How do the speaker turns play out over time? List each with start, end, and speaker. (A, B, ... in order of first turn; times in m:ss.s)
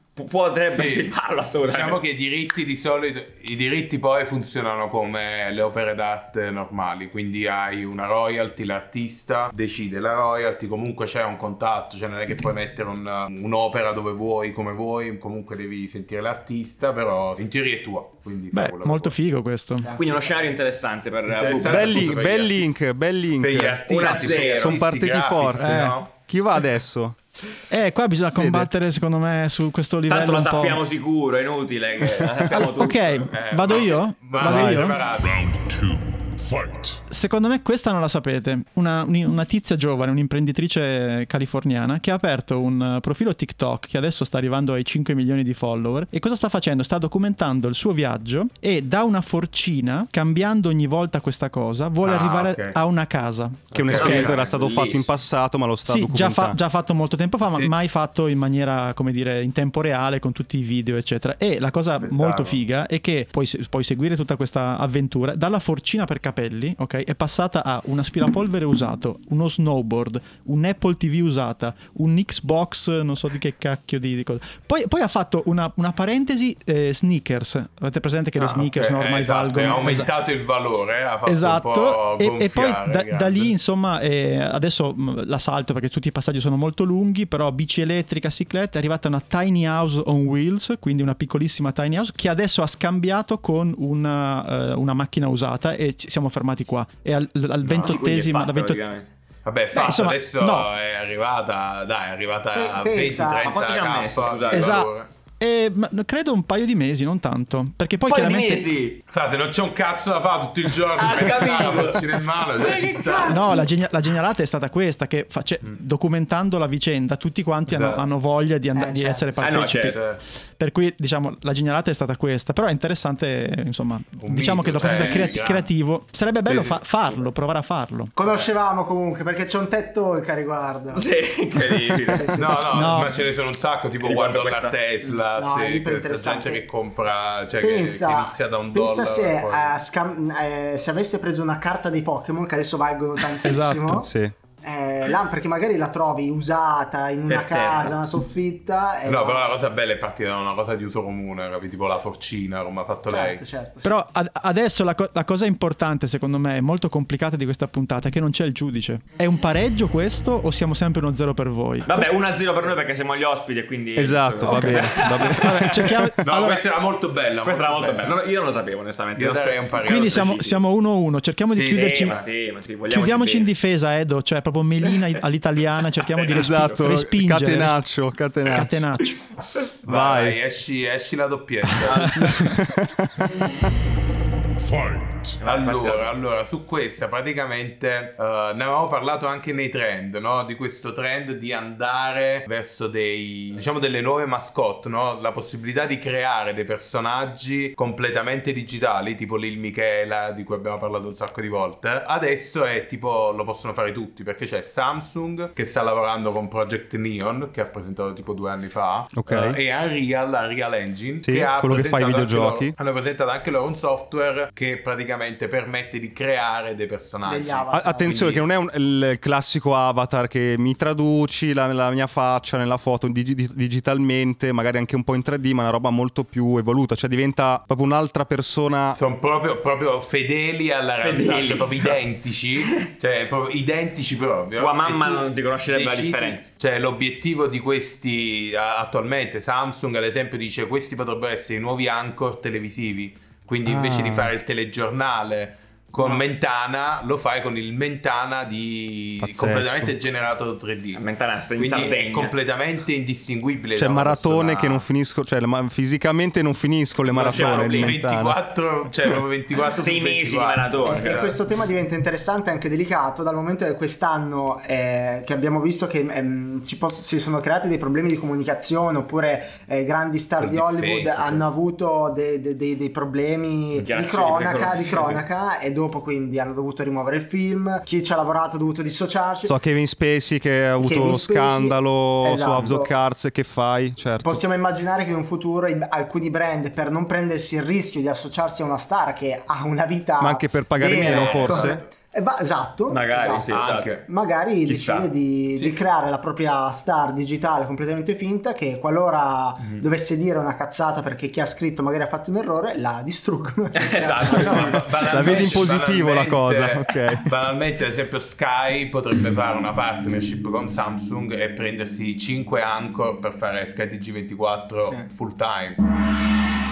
0:00.2-0:02.0 A
0:00.7-0:01.1 B
0:01.6-0:19.2 B
0:18.5-0:19.9 C
0:19.8-0:20.4 D
0:20.0-0:22.3 A
0:21.3-0:22.6 B
0:21.6-0:27.2 E
0:23.4-0:26.1 B
0:23.9-0:24.9 A
0:25.6-0:26.0 C
0:27.7-0:30.8 C
0:28.4-0:28.7 E
0:30.1-0:33.3 A
0:32.5-0:35.0 C
0:33.3-0:35.4 B
0:34.4-0:34.8 E
0:35.0-0:37.0 F
0:37.1-0:54.3 C
0:52.0-0:52.8 B
0:53.7-0:54.5 B
0:53.7-0:56.6 E
0:53.9-0:55.1 A
0:55.8-1:20.1 C
1:02.0-1:02.6 B
1:18.4-1:23.6 B
1:21.3-1:38.8 C
1:37.6-1:39.1 A
1:39.4-1:45.1 B
1:39.7-1:40.7 C
1:42.5-1:43.6 D
1:43.4-1:44.8 A
1:44.5-1:48.7 C
1:48.1-1:49.0 A
1:49.1-1:53.7 B
1:51.0-1:53.7 A
1:53.3-2:08.1 C
1:57.7-1:58.0 B
1:58.8-1:59.4 D
1:59.4-2:00.0 A
1:59.6-2:00.2 B
2:04.2-2:05.7 B
2:06.5-2:06.8 B
2:08.2-2:11.0 D
2:08.2-2:08.5 B
2:10.9-2:12.6 A
2:11.9-2:12.9 D
2:12.4-2:19.8 B
2:12.7-2:13.2 C
2:14.0-2:14.8 A
2:15.3-2:16.6 D
2:17.6-2:24.1 D
2:23.4-2:24.1 C
2:24.0-2:24.3 E
2:24.6-2:29.5 D
2:27.3-2:27.9 A
2:29.1-2:33.4 B
2:33.1-2:33.9 D
2:33.8-2:42.1 C
2:41.9-2:46.0 A
2:44.0-2:46.0 E
2:44.5-2:46.7 C
2:46.2-2:48.2 B
2:47.4-2:50.5 A
2:49.2-2:50.6 B
2:49.8-2:52.2 C
2:51.5-2:52.2 B
2:51.7-2:53.5 A
2:52.9-2:57.8 C
2:56.0-2:56.8 A
2:56.3-2:58.8 E
2:58.4-2:59.2 C
2:59.8-3:02.3 B
2:59.9-3:00.4 E
3:01.9-3:02.1 A
3:02.2-3:03.4 E
3:04.6-3:05.4 F
3:05.4-3:06.1 A
3:05.4-3:38.4 B
3:29.1-3:29.6 E
3:31.2-3:32.7 E
3:37.2-3:38.4 D
3:37.7-3:49.0 E
3:48.9-4:11.0 B
3:51.0-3:52.0 A
3:52.5-3:52.9 A
3:54.6-3:56.5 A
4:03.7-4:04.3 E
4:09.2-4:09.9 E
4:10.9-4:12.3 A
4:11.6-4:14.8 B
4:13.8-4:18.4 E
4:17.1-4:21.4 B
4:17.2-4:18.0 A
4:19.6-4:21.3 A
4:20.8-4:39.6 D
4:30.4-4:31.4 B
4:33.8-4:35.2 A
4:39.5-4:44.4 E
4:40.8-4:42.9 D
4:44.2-5:04.9 D
4:50.2-4:51.8 E
4:51.0-4:51.8 B
4:52.9-4:54.0 A
4:53.5-4:54.0 B
4:54.6-4:55.1 A
5:03.7-5:05.7 A
5:04.1-5:15.8 B
5:05.1-5:07.3 E